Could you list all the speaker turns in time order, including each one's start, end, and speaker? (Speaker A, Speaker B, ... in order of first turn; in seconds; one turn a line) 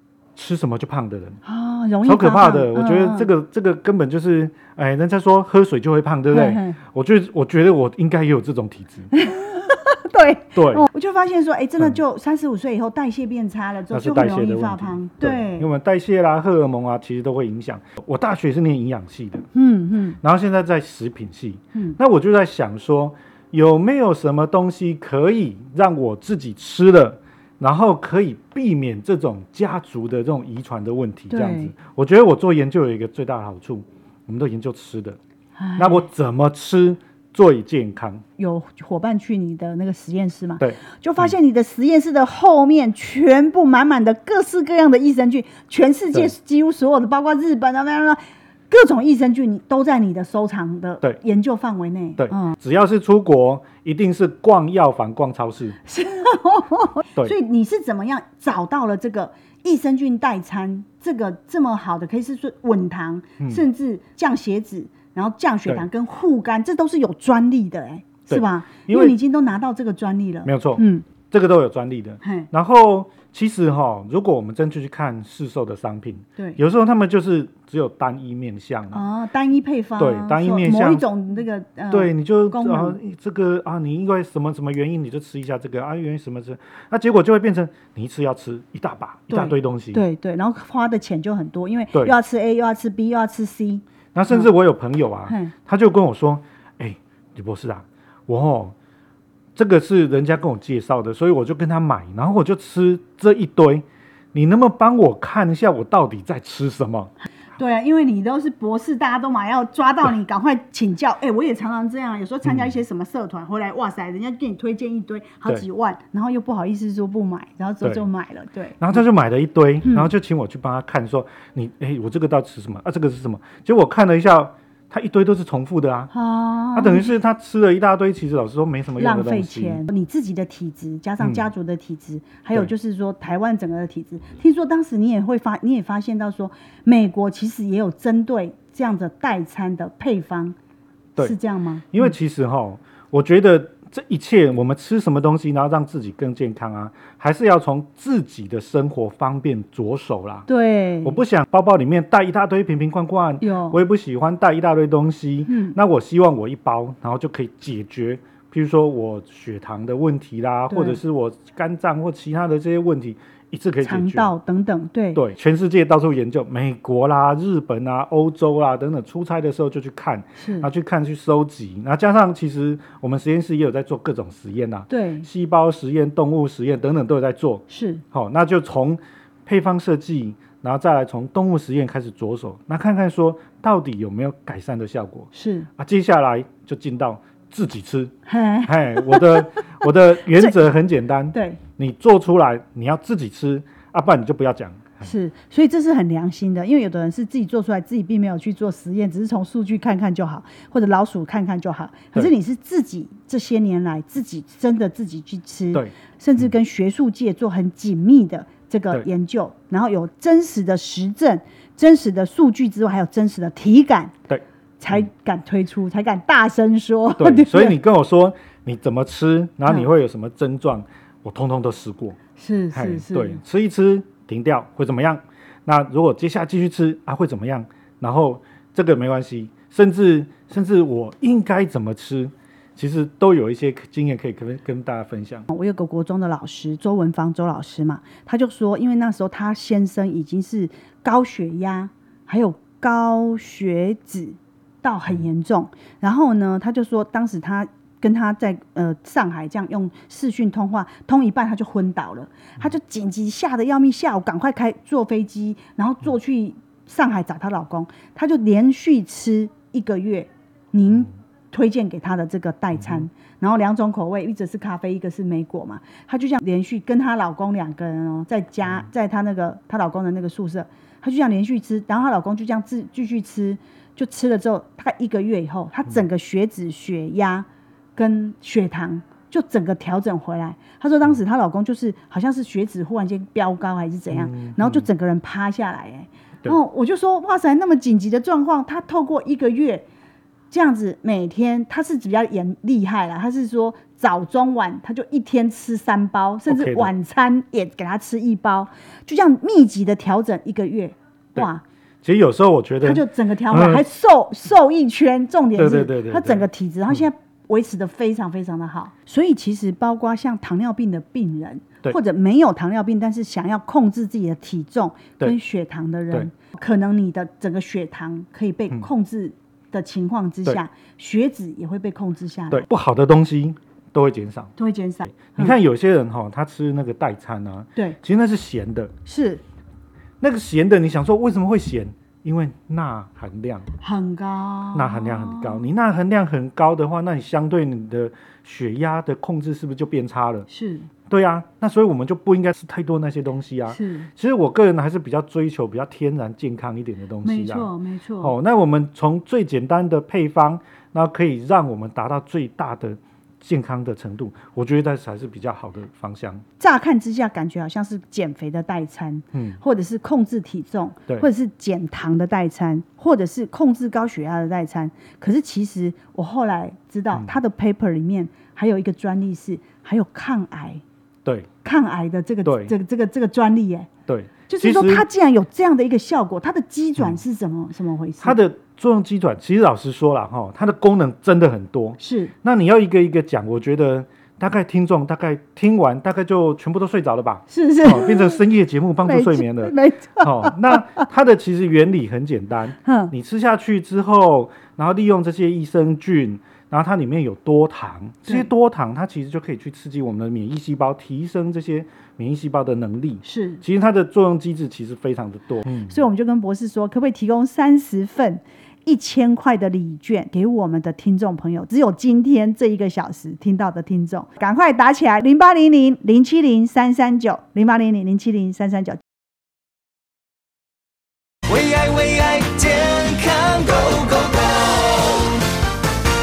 Speaker A: 0.3-1.4
Speaker B: 1.4-3.3
Speaker A: 2.0-9.1
Speaker B: 6.3-6.8
Speaker B: 9.1-15.7
Speaker A: 10.5-10.9
Speaker A: 13.9-19.4
Speaker B: 19.5-20.2
Speaker A: 20.2-35.2
Speaker B: 31.3-31.7
Speaker B: 35.6-36.0
Speaker A: 35.8-38.2
Speaker B: 38.4-52.6
Speaker A: 52.2-55.8
Speaker B: 55.9-71.0
Speaker A: 68.3-69.2
Speaker A: 70.5-79.0
Speaker B: 72.2-72.5
Speaker B: 78.9-83.0
Speaker A: 80.0-81.0
Speaker A: 81.9-90.0
Speaker B: 89.3-94.5
Speaker A: 94.1-98.7
Speaker B: 95.3-95.5
Speaker A: 99.5-107.1
Speaker B: 107.5-119.0
Speaker A: 112.4-112.7
Speaker A: 118.8-126.1
Speaker B: 126.1-127.1
Speaker A: 126.7-129.8
Speaker B: 129.0-140.6
Speaker A: 131.2-131.4
Speaker B: 141.2-142.1
Speaker A: 141.9-150.5
Speaker B: 150.5-151.2
Speaker A: 151.0-164.3
Speaker B: 153.4-153.8
Speaker B: 155.5-155.8
Speaker B: 160.7-161.0
Speaker B: 163.8-165.2
Speaker A: 165.1-188.1
Speaker B: 170.4-170.7
Speaker B: 174.9-175.3
Speaker B: 177.7-178.0
Speaker B: 185.3-185.7
Speaker B: 188.3-189.7
Speaker A: 188.7-195.1
Speaker B: 191.3-191.6
Speaker B: 195.0-214.2
Speaker A: 214.3-215.0
Speaker B: 214.8-217.7
Speaker A: 217.2-222.2
Speaker B: 222.4-223.4
Speaker A: 222.7-235.5
Speaker B: 235.5-289.9
Speaker A: 284.1-284.9
Speaker B: 290.5-301.6
Speaker A: 296.5-296.9
Speaker A: 302.0-303.8
Speaker B: 302.8-322.6
Speaker A: 305.6-306.4
Speaker A: 322.5-324.5
Speaker B: 324.6-325.6
Speaker A: 325.1-328.9
Speaker B: 329.1-329.4
Speaker A: 330.2-333.7
Speaker B: 333.8-335.6
Speaker A: 334.7-340.5
Speaker B: 340.5-340.9
Speaker A: 341.1-347.7
Speaker B: 343.7-344.1
Speaker B: 347.2-348.3
Speaker A: 348.2-356.4
Speaker B: 356.6-370.8
Speaker B: 371.6-373.9
Speaker A: 372.4-372.7
Speaker A: 374.1-375.0
Speaker B: 374.5-378.4
Speaker A: 378.2-405.9
Speaker B: 382.0-382.3
Speaker B: 387.5-388.4
Speaker B: 389.0-391.1
Speaker B: 392.8-393.1
Speaker B: 403.2-403.6
Speaker B: 405.9-419.0
Speaker C: 421.5-425.4